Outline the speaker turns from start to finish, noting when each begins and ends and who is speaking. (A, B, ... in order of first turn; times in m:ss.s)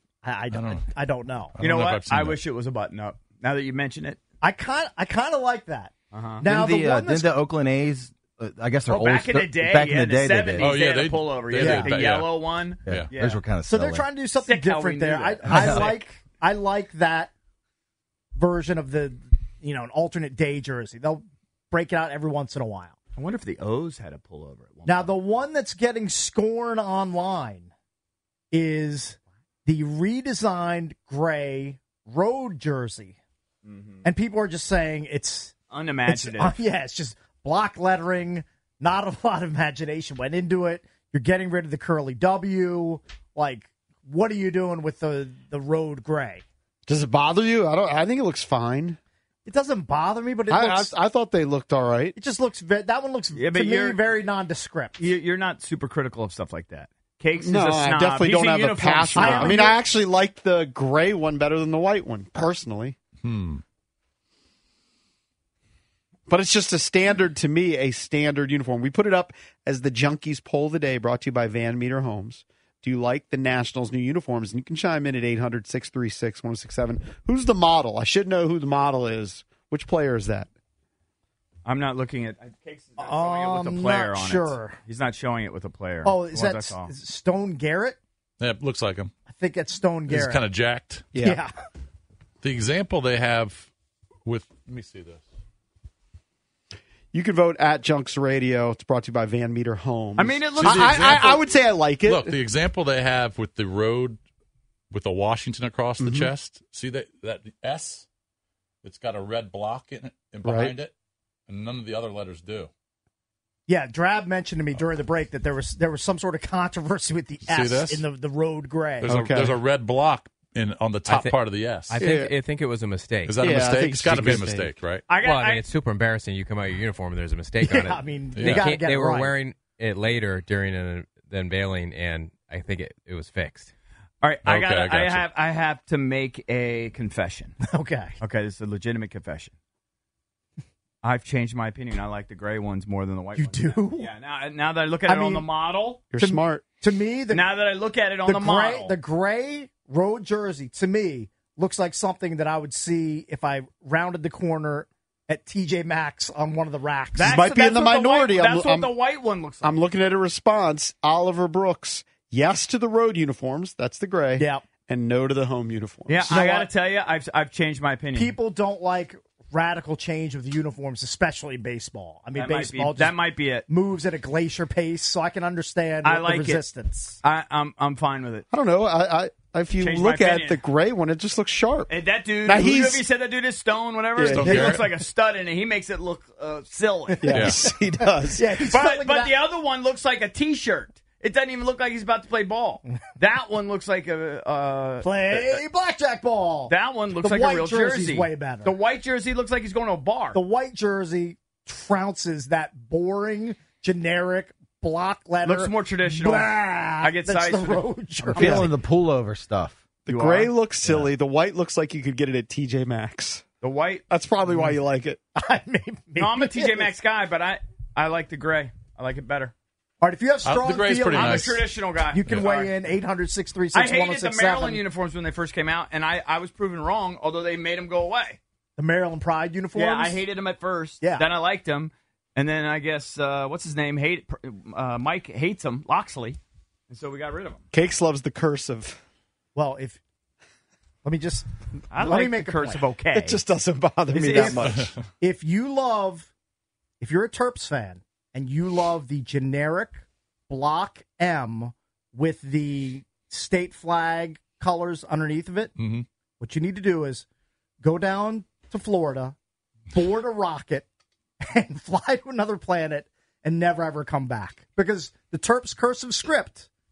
0:00.2-0:01.6 A
0:00.5-0:00.8 B
0:01.6-0:02.4 B
0:01.6-0:04.2 C
0:04.4-0:07.3 A
0:06.1-0:06.4 C
0:06.4-0:10.8 D
0:08.9-0:13.4 C
0:10.5-0:13.1 B
0:11.6-0:11.9 A
0:12.8-0:14.1 D
0:13.7-0:17.3 A
0:14.3-0:16.0 C
0:15.4-0:15.9 D
0:18.4-0:23.0 A
0:23.2-0:25.1 C
0:24.8-0:27.7 A
0:28.5-0:33.2 A
0:33.6-0:34.0 C
0:34.0-0:46.4 A
0:35.7-0:36.6 C
0:46.8-0:49.0 E
0:49.4-0:50.9 A
0:50.5-0:52.2 E
0:52.2-0:55.0 A
0:53.3-0:54.0 C
0:55.0-0:59.7 C
0:57.4-1:03.0 E
0:59.1-0:59.8 A
1:03.2-1:03.6 B
1:06.3-1:20.5 E
1:21.6-1:26.9 C
1:23.0-1:24.8 A
1:26.0-1:28.0 A
1:28.4-1:29.1 B
1:29.3-1:30.4 A
1:30.1-1:31.1 B
1:31.1-1:31.4 E
1:31.2-1:31.5 A
1:32.4-1:33.7 B
1:34.2-1:35.2 B
1:37.1-1:42.4 E
1:40.2-1:41.4 C
1:40.6-1:41.4 B
1:42.0-1:44.2 B
1:44.9-1:48.1 B
1:46.0-1:46.3 E
1:48.8-1:50.9 B
1:50.4-1:50.7 E
1:51.5-1:52.7 B
1:53.7-1:59.2 A
1:57.4-1:58.0 B
1:59.0-2:02.0 B
1:59.0-1:59.6 E
2:01.1-2:01.4 F
2:01.9-2:03.4 F
2:01.9-2:02.4 E
2:03.2-2:05.0 B
2:03.4-2:04.7 E
2:04.2-2:13.7 F
2:05.1-2:05.7 C
2:07.6-2:09.4 A
2:08.4-2:08.6 B
2:14.2-2:17.5 C
2:14.4-2:15.3 B
2:17.6-2:18.2 A
2:18.2-2:19.5 C
2:21.0-2:26.1 C
2:23.3-2:24.1 A
2:25.0-2:25.5 A
2:26.1-2:26.6 E
2:26.2-2:27.5 A
2:27.3-2:29.0 C
2:28.2-2:37.4 A
2:37.2-2:39.8 C
2:37.2-2:38.9 E
2:39.6-2:46.3 E
2:44.4-2:44.7 A
2:46.1-2:48.4 C
2:46.3-2:46.7 A
2:48.1-2:57.2 A
2:52.4-2:53.7 C
2:56.0-2:56.6 C
2:57.2-2:58.4 C
2:58.5-3:01.9 E
2:59.8-3:00.6 C
3:01.9-3:07.2 C
3:02.4-3:03.0 E
3:04.2-3:04.8 E
3:04.3-3:04.8 B
3:04.4-3:04.8 A
3:07.1-3:09.4 A
3:07.2-3:08.6 E
3:07.3-3:07.6 B
3:08.7-3:15.6 C
3:15.0-3:18.7 A
3:16.7-3:20.4 C
3:20.3-3:28.7 A
3:25.4-3:28.0 C
3:28.2-3:29.8 D
3:28.4-3:28.7 E
3:30.0-3:33.4 E
3:30.1-3:30.5 C
3:30.8-3:31.1 D
3:33.6-3:34.0 C
3:34.1-3:35.2 E
3:35.4-3:36.9 A
3:36.2-3:39.5 C
3:40.0-3:44.8 A
3:40.4-3:41.6 B
3:41.1-3:42.7 C
3:42.3-3:42.6 B
3:43.7-3:48.4 C
3:48.8-3:50.3 A
3:49.7-3:57.6 C
3:51.0-3:51.3 A
3:57.7-3:59.0 E
3:59.5-4:00.0 A
4:01.0-4:02.9 A
4:01.9-4:03.4 C
4:03.1-4:04.9 E
4:04.1-4:04.6 C
4:04.1-4:06.3 A
4:07.0-4:15.7 A
4:15.8-4:16.0 B
4:16.4-4:17.2 A
4:17.8-4:19.4 A
4:19.9-4:20.8 A
4:21.4-4:26.7 A